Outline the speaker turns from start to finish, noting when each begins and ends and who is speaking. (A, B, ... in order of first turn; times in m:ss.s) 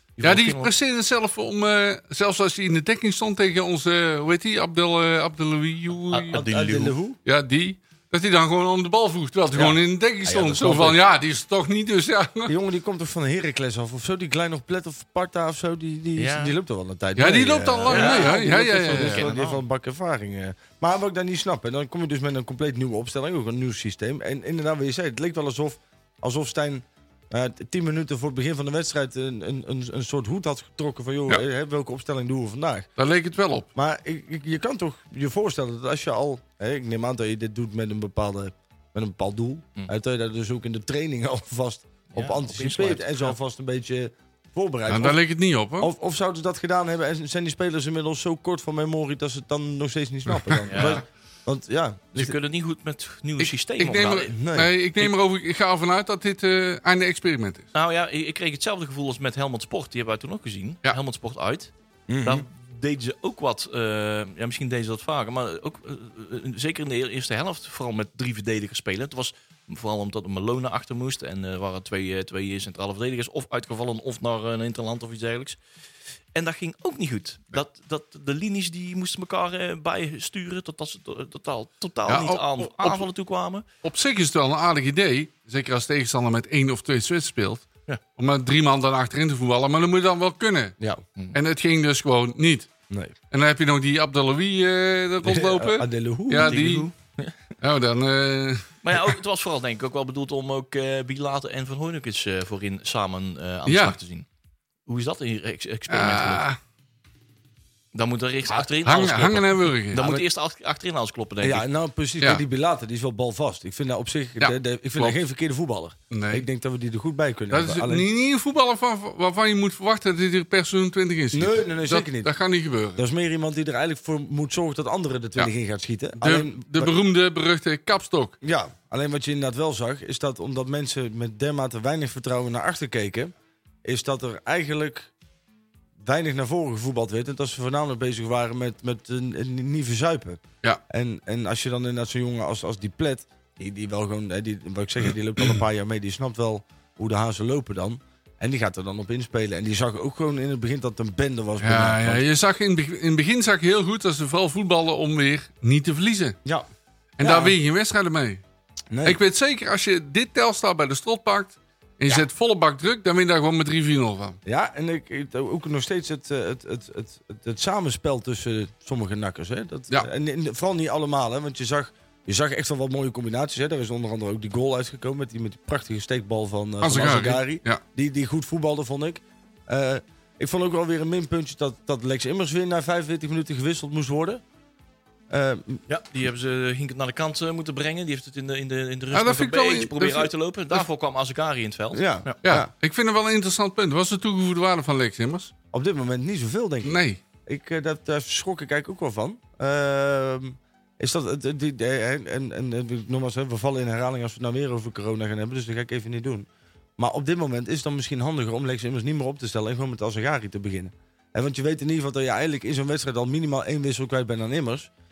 0:00.2-0:00.7 A
0:00.2-0:06.4 B
0:06.1-0:06.9 A
0:06.3-0:07.2 C
0:07.2-0:12.5 B
0:09.5-0:11.0 C
0:12.5-0:32.9 C
0:16.2-0:16.5 A
0:17.2-0:19.3 B
0:17.9-0:19.6 A
0:33.0-0:33.7 B
0:33.7-0:45.2 C
0:42.1-0:43.3 A
0:44.9-0:45.9 B
0:45.8-0:52.3 C
0:50.3-0:51.0 B
0:50.7-0:51.0 A
0:52.1-0:54.3 A
0:53.6-0:57.6 B
0:54.3-0:54.7 C
0:57.7-1:01.7 A
1:02.1-1:02.4 C
1:02.2-1:15.6 A
1:16.3-1:23.6 A
1:22.1-1:23.0 B
1:23.8-1:30.8 B
1:31.3-1:32.7 B
1:32.9-1:33.1 C
1:33.3-1:36.9 B
1:35.2-1:36.6 C
1:36.4-1:37.5 A
1:37.6-1:39.2 B
1:38.8-1:44.2 A
1:43.7-1:44.0 B
1:44.8-1:46.4 A
1:45.9-1:46.6 B
1:47.9-1:51.6 A
1:48.7-1:50.0 B
1:49.9-1:50.2 C
1:51.4-1:58.1 C
1:54.4-1:55.2 B
1:56.1-1:56.4 B
1:57.5-2:03.0 B
2:01.3-2:02.3 C
2:03.0-2:06.9 C
2:06.2-2:08.3 B
2:08.4-2:13.3 C
2:13.8-2:15.1 C
2:16.0-2:32.2 C
2:31.6-2:36.4 B
2:37.2-2:38.4 B
2:37.2-2:37.6 C
2:38.9-2:39.2 C
2:39.0-2:44.4 B
2:44.4-3:04.4 C
2:56.8-2:57.8 B
3:05.3-3:05.8 C
3:05.9-3:12.4 A
3:09.1-3:10.8 B
3:11.9-3:12.7 C
3:12.4-3:15.5 B
3:15.7-3:34.9 C
3:16.8-3:17.2 B